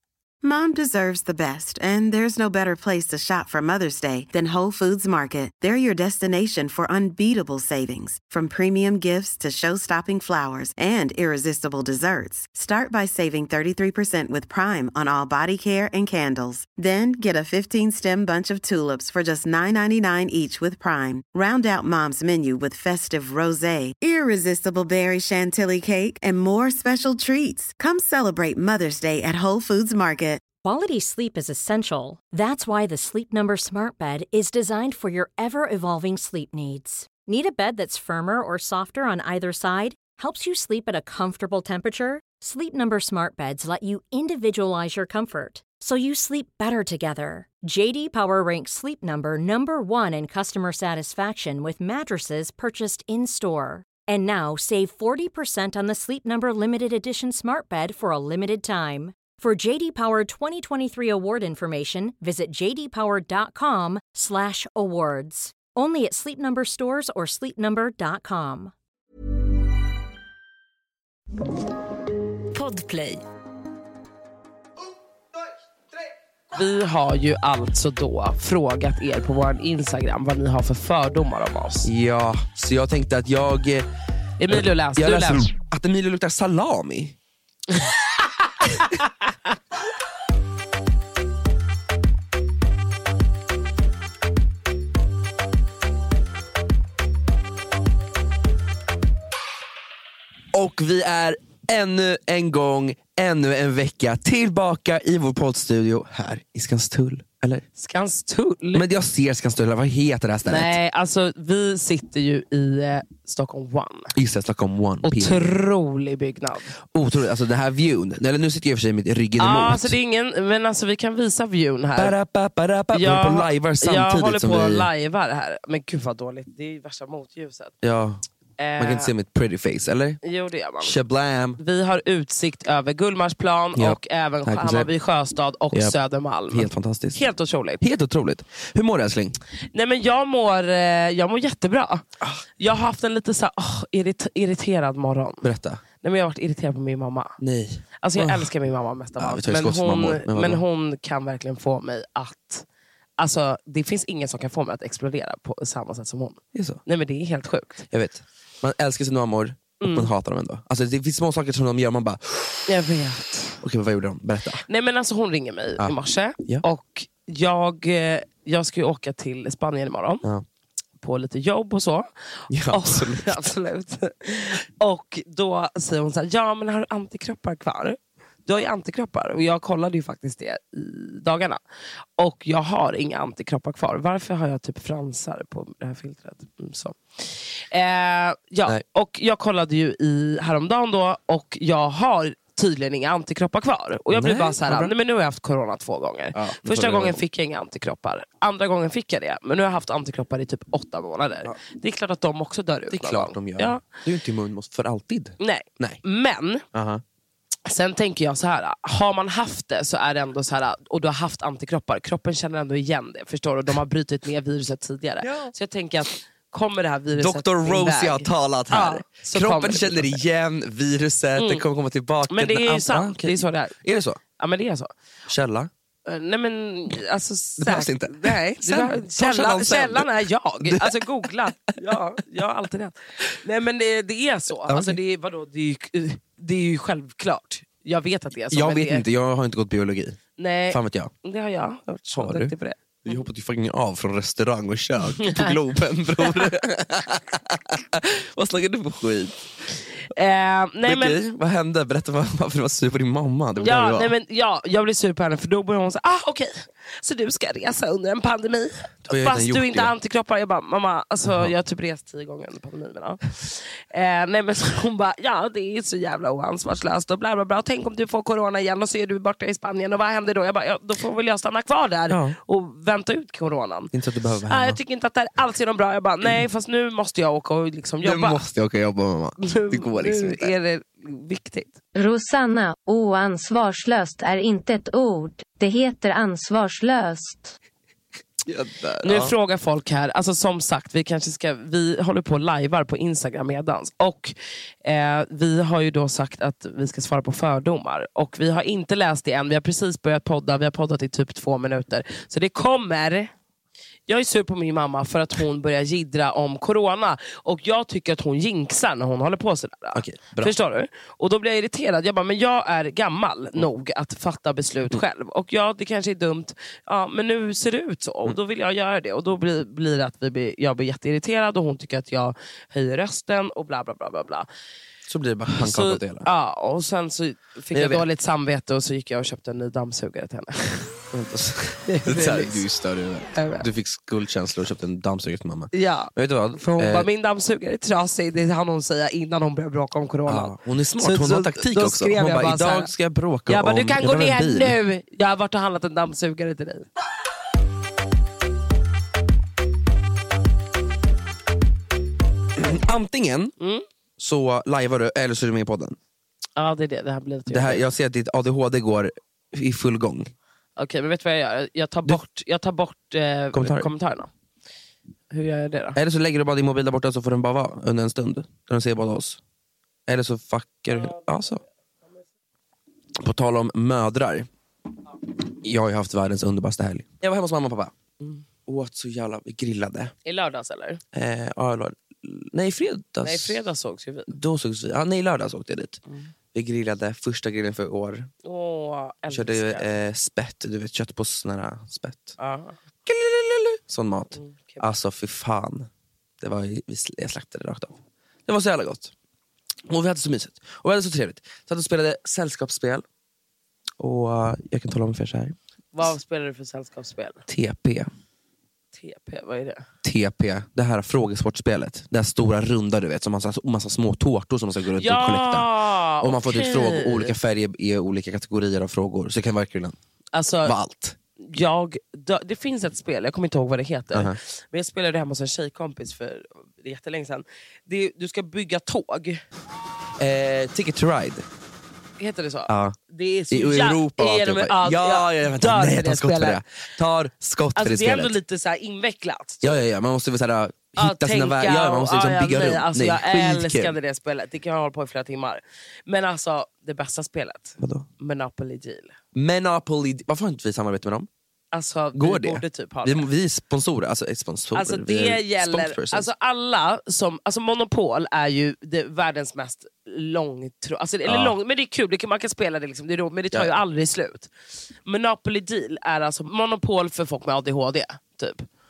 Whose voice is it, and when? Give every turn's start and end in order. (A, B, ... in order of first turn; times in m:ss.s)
0:00.4-0:30.4 A
0:30.6-1:08.7 B
1:12.5-1:13.2 C
1:16.5-1:21.9 D
1:21.8-1:23.9 E
1:24.4-1:25.5 D
1:24.5-1:27.2 E
1:40.5-1:47.6 E
1:47.8-1:48.9 D
1:48.7-1:50.7 E
1:50.4-1:54.1 D
1:54.1-1:55.5 E
1:55.0-1:56.7 D
1:56.9-1:59.9 E
1:59.4-2:02.2 D
2:01.9-2:04.9 E
2:02.9-2:07.7 D
2:07.8-2:08.2 E
2:08.6-2:09.1 D
2:08.8-2:10.2 E
2:10.2-2:10.9 D
2:10.8-2:11.6 E
2:11.6-2:17.8 D
2:13.8-2:14.9 E
2:15.7-2:16.0 E
2:16.5-2:17.2 E
2:17.8-2:19.4 E
2:19.7-2:22.0 D
2:22.6-2:25.5 D
2:25.4-2:25.8 E
2:26.0-2:27.4 D
2:27.4-2:28.5 E
2:28.0-2:32.6 D
2:29.2-2:30.6 E
2:33.2-2:37.8 D
2:36.5-2:36.8 E
2:37.9-2:42.7 E
2:39.8-2:40.1 D
2:42.6-2:43.6 D
2:43.6-2:44.6 E
2:44.7-2:50.2 D
2:45.8-2:46.6 E
2:51.0-3:01.6 D
2:52.5-2:53.4 E
3:02.2-3:23.8 D
3:14.1-3:14.9 E
3:16.3-3:17.2 E
3:22.9-3:26.0 E
3:25.4-3:26.6 D
3:26.7-3:27.0 E
3:27.7-3:40.2 D
3:35.2-3:35.5 E
3:37.2-3:44.2 E
3:41.4-3:41.6 D
3:42.3-3:43.8 D
3:44.4-3:44.9 D
3:45.3-3:45.7 E
3:46.0-3:59.0 D
3:47.6-3:51.9 E
3:54.6-3:55.0 E
3:58.5-4:01.1 E
4:00.4-4:02.8 D
4:02.1-4:02.5 E
4:03.0-4:09.4 E
4:05.2-4:05.5 D
4:10.1-4:11.2 D
4:10.8-4:14.1 E
4:13.6-4:33.9 D
4:19.0-4:19.9 E
4:21.2-4:21.5 E
4:32.1-4:32.4 E
4:33.9-4:34.8 E
4:34.5-4:38.4 D
4:38.0-4:40.5 E
4:39.4-4:41.7 D
4:42.0-4:47.5 C
4:48.4-4:49.3 E
4:49.0-5:03.3 D
5:04.1-5:24.5 D
5:09.9-5:10.5 E
5:25.1-5:26.3 E
5:25.5-5:30.9 D
5:27.7-5:28.0 E
5:31.1-5:37.1 E
5:31.8-5:32.6 D
5:33.3-5:33.7 D
5:35.7-5:42.9 D
5:40.2-5:44.8 E
5:43.5-5:46.8 D
5:52.6-5:53.5 E
5:53.6-5:53.8 D
5:54.2-5:56.0 E
5:56.6-5:57.8 D
5:57.5-6:00.3 E
6:00.8-6:04.3 D
6:03.5-6:03.9 E
6:05.3-6:06.0 D
6:06.0-6:09.4 E
6:10.1-6:11.6 E
6:10.9-6:11.3 D
6:13.2-6:14.5 E
6:15.6-6:17.9 E
6:18.6-6:20.1 E
6:20.2-6:21.0 D
6:21.1-6:23.6 E
6:23.2-6:24.3 D
6:24.3-6:26.0 E
6:26.5-6:28.3 E
6:28.4-6:29.9 D
6:29.3-6:32.4 E
6:32.4-6:32.8 D
6:33.0-6:35.9 E
6:34.4-6:34.9 D
6:36.4-6:39.1 E
6:39.9-6:43.0 E
6:44.0-6:45.6 E
6:45.9-6:47.4 D
6:47.5-6:48.1 E
6:48.9-6:49.8 D
6:50.0-7:00.0 E
6:55.0-6:57.3 D
7:00.3-7:00.8 D
7:00.6-7:01.2 E
7:01.4-7:09.4 D
7:10.2-7:11.4 E
7:12.2-7:16.6 D
7:12.7-7:13.0 E
7:13.5-7:18.4 E
7:17.7-7:19.8 D
7:19.6-7:24.0 E
7:21.0-7:29.1 D
7:27.8-7:28.1 E
7:29.3-7:31.3 E
7:31.7-7:33.3 D
7:32.1-7:36.3 E
7:34.7-7:44.5 D
7:41.2-7:41.6 E
7:45.0-7:48.6 D